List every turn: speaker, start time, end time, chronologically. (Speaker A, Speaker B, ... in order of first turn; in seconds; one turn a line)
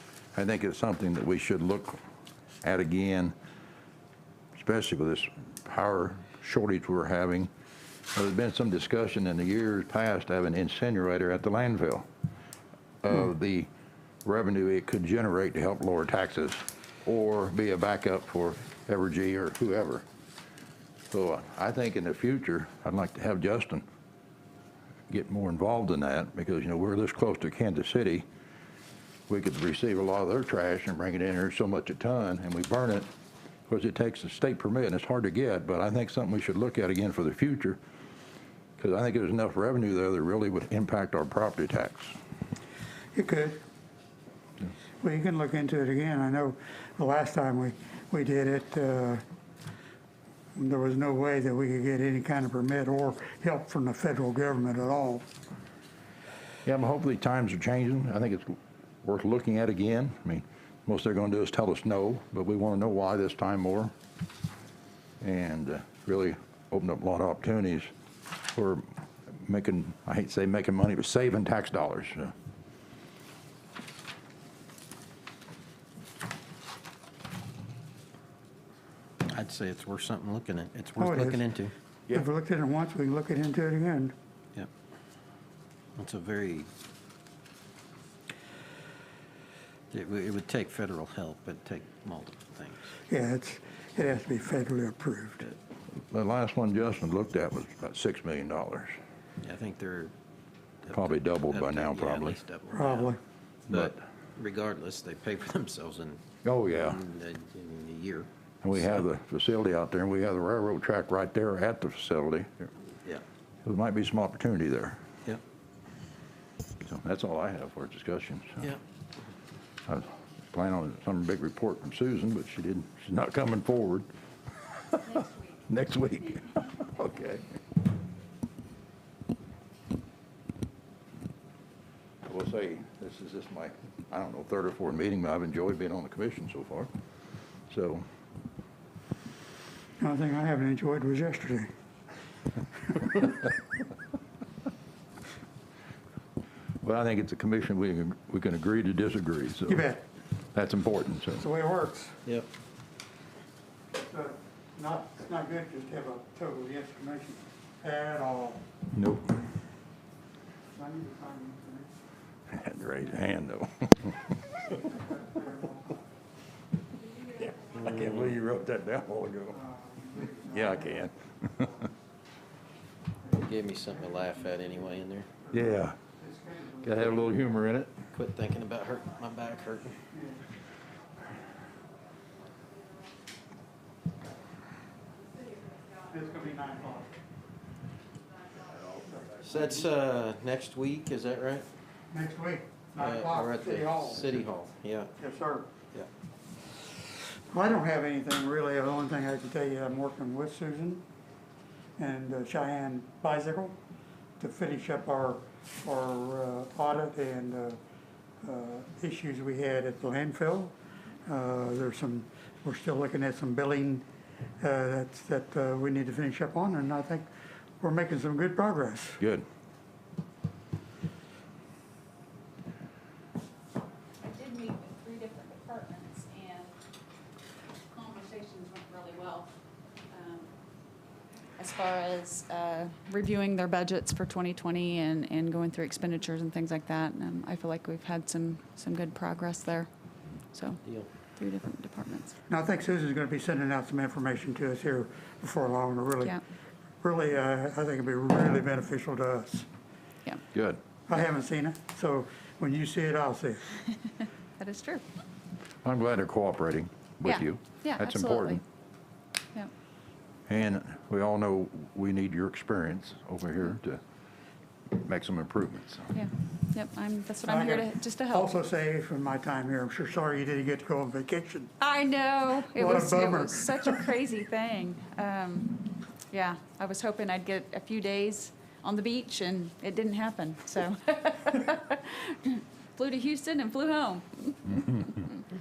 Speaker A: 0.3-2.0
Speaker A: 2.6-3.3
Speaker A: 4.5-7.5
Speaker A: 8.1-12.1
Speaker A: 13.0-13.7
Speaker A: 14.2-20.0
Speaker A: 21.1-23.8
Speaker A: 25.1-28.2
Speaker A: 29.3-33.1
Speaker A: 33.7-37.8
Speaker A: 38.8-42.1
Speaker B: 43.1-43.6
Speaker B: 45.0-49.2
Speaker B: 50.5-55.3
Speaker A: 56.6-63.9
Speaker A: 65.2-67.9
Speaker A: 68.5-72.3
Speaker C: 79.2-81.7
Speaker B: 81.0-81.4
Speaker B: 82.1-84.1
Speaker C: 86.0-86.7
Speaker C: 89.9-92.9
Speaker B: 93.1-95.5
Speaker A: 96.0-99.0
Speaker C: 99.4-100.1
Speaker C: 100.8-103.1
Speaker A: 100.9-102.4
Speaker B: 102.7-103.2
Speaker C: 103.7-108.3
Speaker A: 103.7-104.0
Speaker A: 106.4-107.0
Speaker A: 108.6-112.7
Speaker A: 113.6-115.0
Speaker A: 116.8-118.7
Speaker A: 119.9-124.1
Speaker A: 124.9-127.5
Speaker D: 125.1-125.4
Speaker A: 132.2-136.9
Speaker A: 137.7-138.1
Speaker B: 140.0-141.7
Speaker A: 146.8-149.8
Speaker B: 149.7-150.0
Speaker A: 150.5-151.4
Speaker B: 151.4-152.2
Speaker B: 154.0-158.6
Speaker A: 158.9-159.4
Speaker B: 160.7-161.9
Speaker A: 162.5-164.2
Speaker B: 164.7-166.0
Speaker A: 167.3-169.6
Speaker B: 169.5-171.1
Speaker A: 170.4-171.9
Speaker B: 173.2-177.4
Speaker C: 173.3-175.3
Speaker A: 175.5-175.9
Speaker A: 176.8-177.9
Speaker C: 178.1-180.0
Speaker B: 180.1-180.4
Speaker B: 186.0-187.2
Speaker B: 188.9-189.4
Speaker C: 189.4-191.7
Speaker B: 192.1-194.4
Speaker C: 193.0-195.1
Speaker B: 195.2-195.7
Speaker B: 197.5-201.0
Speaker B: 202.0-203.8
Speaker B: 204.4-207.8
Speaker B: 208.4-210.7
Speaker B: 211.2-214.0
Speaker B: 214.6-217.3
Speaker B: 217.8-219.2
Speaker A: 219.2-219.4
Speaker D: 224.2-226.8
Speaker D: 227.9-229.5
Speaker D: 230.1-230.5
Speaker D: 231.6-239.9
Speaker D: 240.5-240.8
Speaker D: 241.4-242.3
Speaker B: 242.5-246.4
Speaker B: 247.0-249.7
Speaker A: 250.5-250.8
Speaker B: 251.1-253.7
Speaker D: 254.6-255.0
Speaker A: 255.8-258.6
Speaker D: 257.2-258.6
Speaker A: 260.5-264.0
Speaker A: 264.9-266.1
Speaker D: 266.1-268.5
Speaker B: 267.4-271.7
Speaker D: 271.8-285.3
Speaker B: 272.7-274.0
Speaker A: 284.7-285.2